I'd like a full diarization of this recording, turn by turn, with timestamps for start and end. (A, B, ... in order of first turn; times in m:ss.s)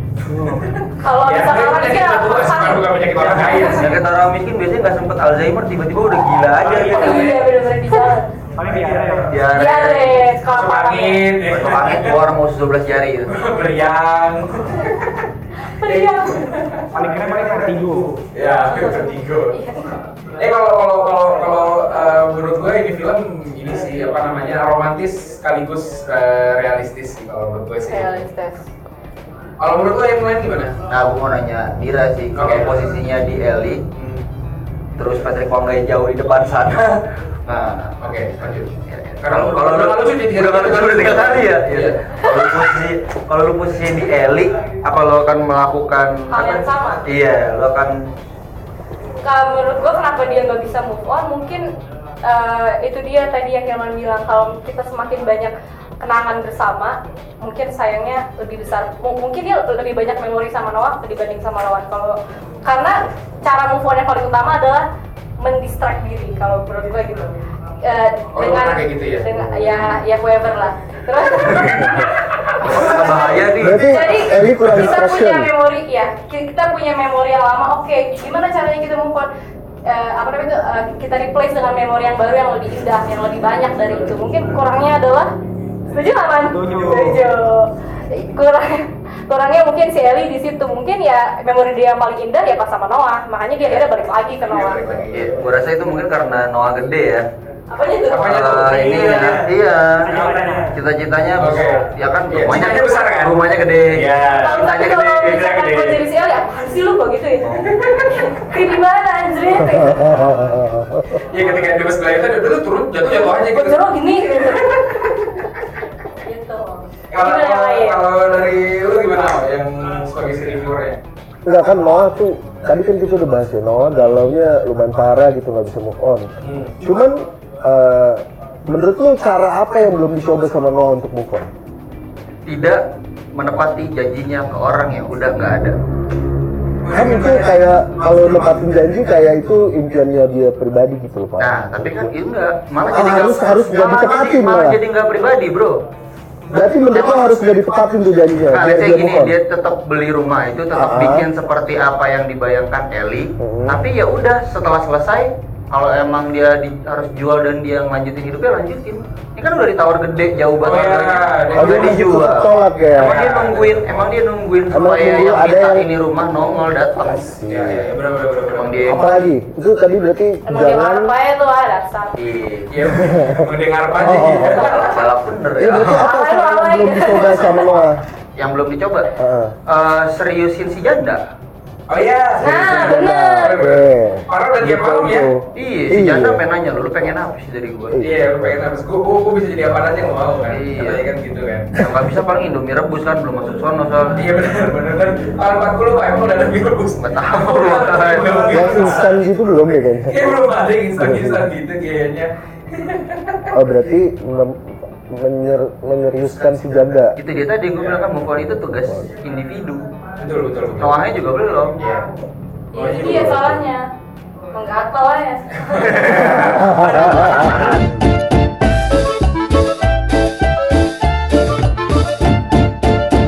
0:00.3-0:04.0 A
0:01.0-0:03.8 B
0:03.2-0:07.4 C
0:06.6-0:07.4 A
0:06.7-0:08.3 B
0:08.6-0:09.3 D
0:09.3-0:10.3 C
0:09.5-0:11.2 B
0:10.5-0:12.2 A
0:11.4-0:13.4 C
0:13.3-0:15.2 A
0:15.8-0:16.5 B
0:15.8-0:16.9 A
0:16.9-0:18.2 D
0:18.3-0:19.6 A
0:18.6-0:19.9 B
0:20.4-0:28.2 A
0:27.9-0:28.7 B
0:29.6-0:30.8 A
0:30.9-0:33.8 C
0:32.4-0:32.7 A
0:34.0-0:34.2 A
0:35.0-0:37.9 C
0:38.0-0:42.0 A
0:38.9-0:48.1 C
0:46.3-0:47.0 B
0:49.2-0:51.6 B
0:52.2-1:04.8 B
1:05.4-1:19.3 B
1:08.3-1:09.3 A
1:11.5-1:11.8 C
1:12.6-1:13.9 C
1:13.5-1:15.5 E
1:19.8-1:25.3 B
1:25.9-1:35.0 B
1:26.5-1:27.3 D
1:34.5-1:35.4 A
1:35.1-1:37.3 C
1:37.7-1:38.3 B
1:38.1-1:39.5 A
1:38.2-1:44.1 C
1:40.0-1:40.8 D
1:40.1-1:40.4 A
1:41.4-1:46.0 A
1:42.5-1:43.0 B
1:44.3-1:50.3 B
1:47.4-1:47.8 C
1:47.7-1:48.1 A
1:49.6-1:51.2 E
1:51.3-1:55.4 A
1:53.1-1:54.8 B
1:56.2-1:58.0 B
1:57.1-2:01.0 A
2:01.4-2:11.5 E
2:06.4-2:06.8 A
2:12.4-2:15.8 C
2:16.8-2:18.6 A
2:16.9-2:22.1 E
2:21.4-2:25.8 C
2:22.8-2:24.8 E
2:26.5-2:29.3 E
2:26.9-2:27.4 C
2:28.5-2:47.3 C
2:30.7-2:31.3 E
2:33.4-2:33.8 E
2:40.6-2:42.3 A
2:41.6-2:43.2 E
2:42.9-2:43.9 A
2:44.7-2:45.9 E
2:47.0-2:47.9 E
2:47.5-2:49.1 A
2:48.5-2:49.1 C
2:48.8-2:51.1 E
2:50.5-2:52.2 B
2:52.2-2:52.7 C
2:52.7-2:54.9 A
2:52.8-2:54.7 E
2:54.6-2:55.0 B
2:54.6-2:56.1 C
2:55.6-2:58.0 E
2:55.9-2:57.8 B
2:58.4-2:59.1 C
2:59.2-2:59.6 E
2:59.7-3:01.2 C
3:01.9-3:05.3 A
3:02.4-3:06.4 E
3:02.4-3:03.5 B
3:05.5-3:08.1 C
3:07.9-3:08.6 E
3:08.0-3:11.8 A
3:10.4-3:11.0 C
3:11.8-3:14.1 C
3:14.2-3:19.2 A
3:17.0-3:18.7 C
3:18.5-3:20.4 E
3:20.1-3:23.5 A
3:21.0-3:21.5 E
3:23.5-3:27.2 E
3:27.2-3:29.9 C
3:27.8-3:28.0 A
3:28.4-3:29.1 E
3:30.2-3:31.0 A
3:30.8-3:31.8 C
3:31.8-3:32.1 A
3:32.7-3:33.9 B
3:32.7-3:33.4 A
3:33.0-3:33.6 E
3:34.5-3:36.3 B
3:35.6-3:37.8 A
3:36.3-3:37.6 E